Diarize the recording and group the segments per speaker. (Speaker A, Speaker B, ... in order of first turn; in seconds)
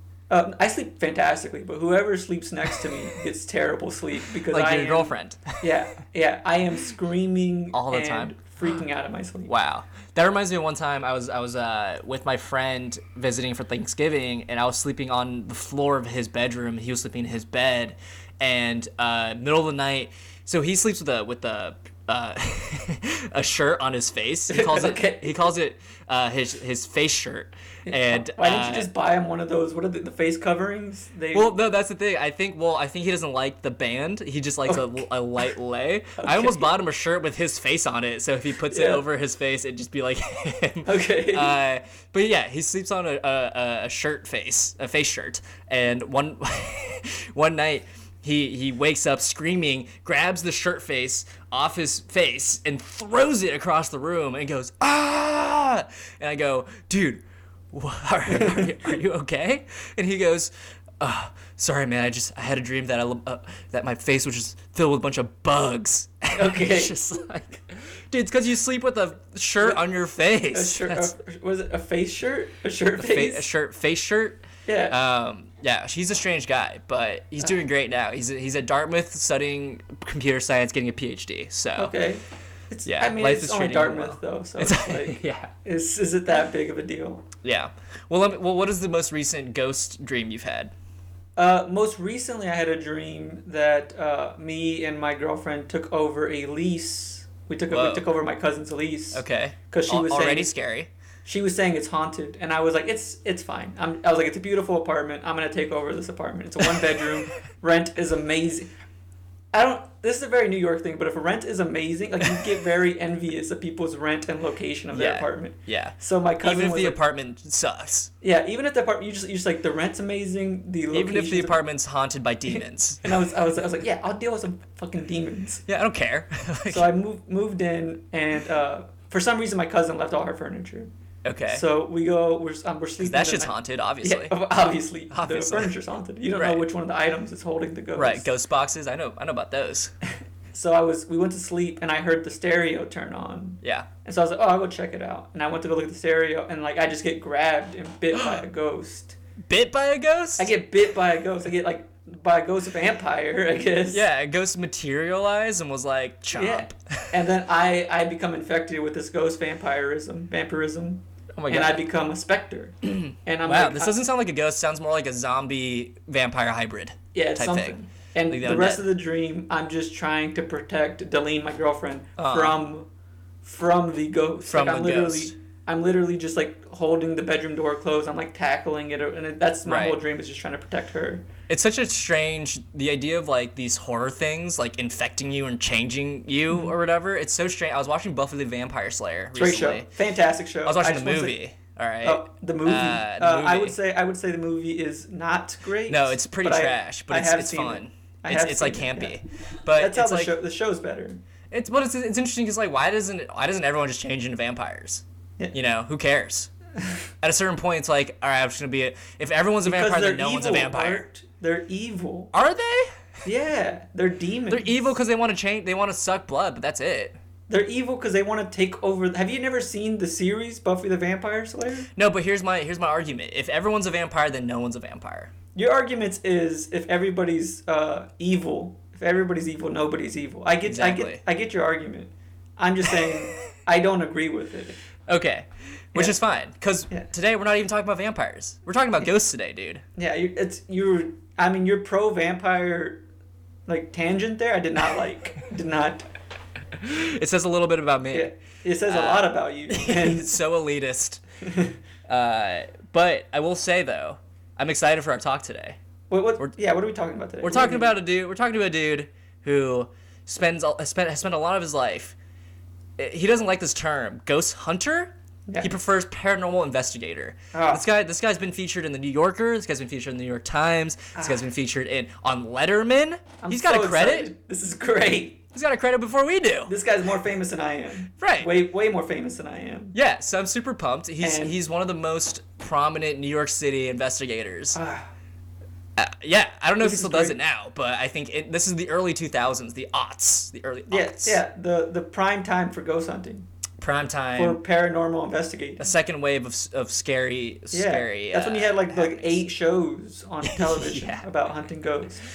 Speaker A: 0.3-9.5, 24.5-25.4, 27.9-31.6, 34.7-35.0, 36.2-36.7, 38.7-39.0, 40.9-41.6, 58.3-58.6, 66.3-66.9, 70.5-73.5, 74.7-75.0, 81.8-87.2, 91.4-100.5, 101.2-108.7, 109.5-117.0, 118.2-121.6, 122.5-125.6, 126.7-130.9, 131.5-138.3, 140.5-149.2, 150.4-154.0, 156.3-164.0, 167.1-172.9, 173.4-181.3, 189.4-191.4, 192.0-199.2, 199.8-201.2, 209.7-212.3, 213.2-214.9, 217.5-221.9, 225.6-234.8, 240.0-243.0, 243.7-246.1, 248.1-250.3, 251.4-251.8, 256.1-257.9, 267.5-267.8, 271.1-271.5, 273.4-275.4, 276.7-280.0, 281.2-281.6, 284.8-285.1, 286.8-287.4, 290.9-293.5, 294.4-295.9, 297.7-302.2
Speaker B: 4.5-5.6, 7.7-8.8, 9.5-28.9, 31.3-71.1, 73.0-82.0, 82.9-85.5, 87.4-90.7, 97.7-98.1, 99.1-100.9, 114.9-118.1, 120.9-123.1, 125.7-126.9, 131.2-131.6, 133.0-134.4, 135.1-135.7, 136.3-136.7, 138.0-139.9, 143.6-143.9, 148.2-148.4, 149.5-150.5, 153.9-157.1, 161.3-161.8, 162.8-168.8, 172.2-172.6, 174.5-175.3, 179.7-180.0, 181.5-189.9, 190.7-193.8, 195.9-200.3, 201.5-206.5, 207.2-211.0, 212.3-212.9, 214.5-217.2, 222.0-225.3, 230.7-231.2, 235.1-239.8, 246.8-248.3, 248.9-251.2, 252.1-255.8, 257.4-262.1, 263.0-274.3, 275.5-276.8, 278.2-278.5, 279.9-284.8, 286.0-291.4, 293.8-294.6, 295.8-299.4, 300.4-301.3